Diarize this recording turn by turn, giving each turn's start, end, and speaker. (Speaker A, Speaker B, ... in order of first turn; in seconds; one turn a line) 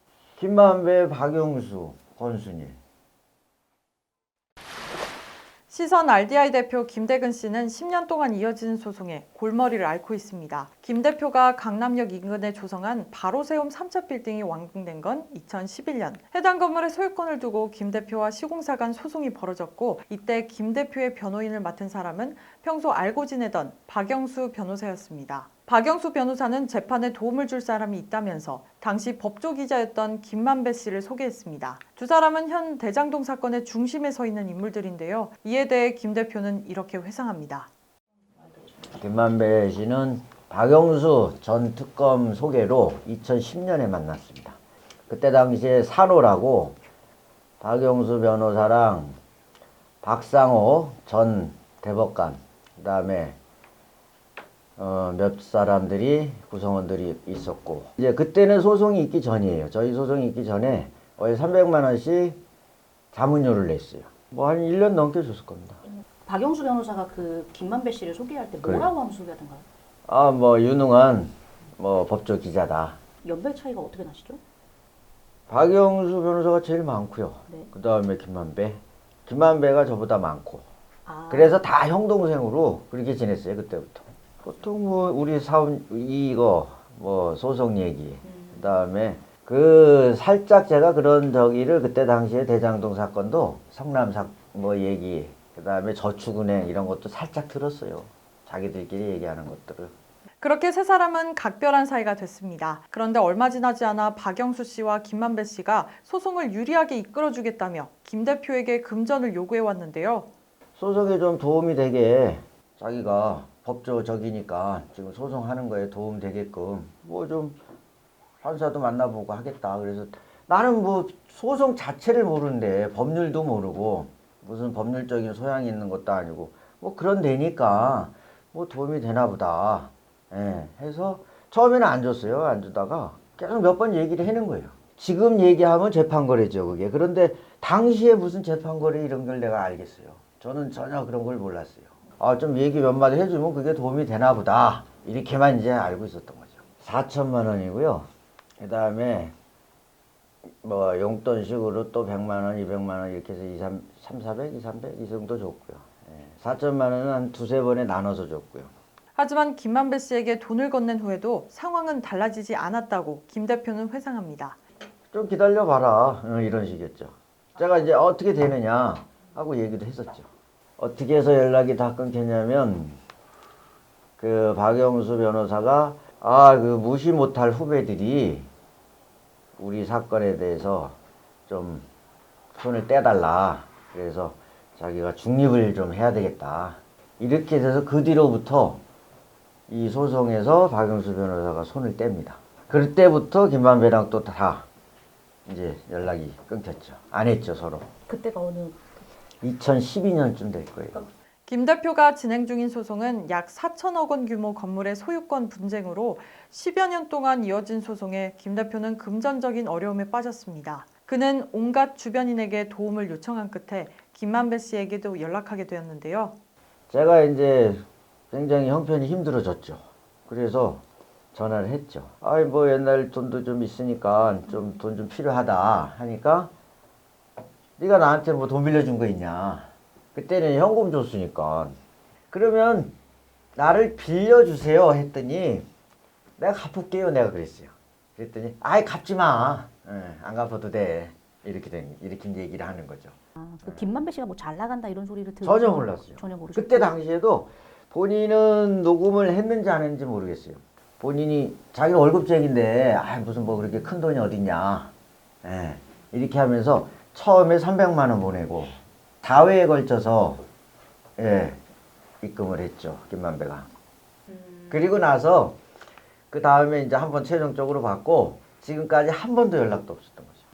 Speaker A: 0.4-2.8
Speaker B: 5.7-37.7
Speaker A: 38.9-44.6
Speaker A: 45.1-46.8
Speaker A: 47.6-49.1
Speaker A: 50.0-53.4
Speaker A: 54.8-62.4
Speaker A: 63.1-65.8
Speaker C: 66.2-69.7
Speaker A: 68.6-68.9
Speaker A: 70.1-73.0
Speaker C: 73.2-74.4
Speaker A: 75.5-80.7
Speaker C: 81.0-81.6
Speaker A: 81.3-99.9
Speaker B: 100.4-110.3
Speaker A: 110.8-117.6
Speaker A: 118.4-148.1
Speaker A: 148.6-149.3
Speaker A: 150.6-158.7
Speaker B: 159.1-164.6
Speaker A: 165.1-173.0
Speaker A: 174.2-178.5
Speaker A: 179.6-180.9
Speaker A: 181.5-181.8
Speaker A: 182.5-188.8
Speaker A: 189.7-194.7
Speaker A: 195.4-197.9
Speaker C: 198.1-198.9
Speaker A: 199.4-201.0
Speaker B: 201.5-216.3
Speaker A: 216.9-220.8
Speaker A: 221.3-226.5
Speaker A: 227.8-231.7
Speaker A: 232.3-232.9
Speaker A: 233.6-235.7
Speaker A: 236.4-243.9
Speaker C: 243.4-246.9
Speaker A: 245.4-254.9
Speaker A: 255.4-260.4
Speaker A: 261.2-261.6
Speaker A: 262.2-263.7
Speaker A: 264.7-265.6
Speaker A: 266.3-270.4